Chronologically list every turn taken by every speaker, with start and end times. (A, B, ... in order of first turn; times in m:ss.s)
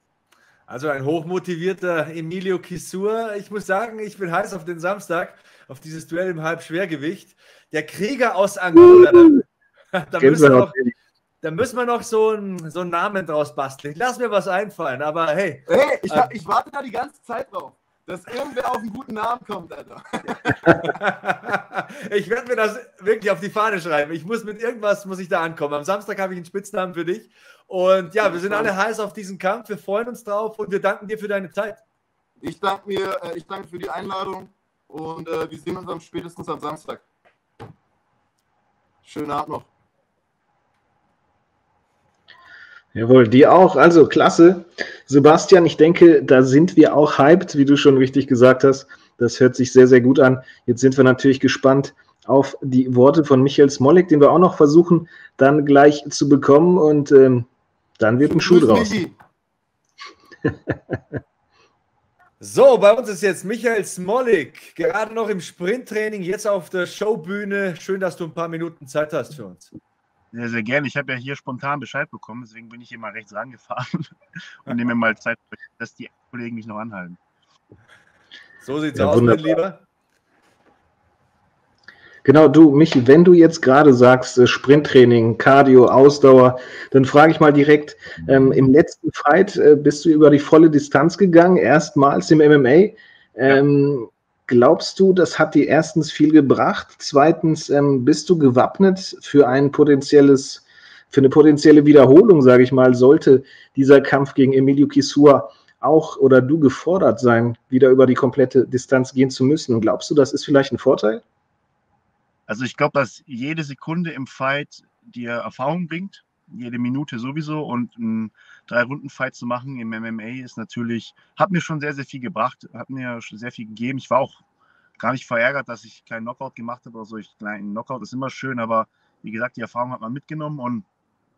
0:00.7-0:09.4 A
0:09.9-0:10.7 A
0:10.2-0:10.9 B
0:11.4-0:16.3 A
0:15.7-0:20.9 C
0:20.7-0:31.8 A
0:28.2-0:28.7 C
0:32.4-0:37.0 C
0:39.0-0:39.7 C
0:42.9-0:57.5 B
0:58.0-0:59.0 B
0:58.2-0:59.2 C
1:02.4-1:09.7 A
1:10.3-1:14.1 D
1:14.7-1:17.2 D
1:18.6-1:19.8 A
1:19.0-1:19.6 B
1:22.2-1:51.2 B
1:52.5-2:04.4 D
2:05.0-2:10.8 D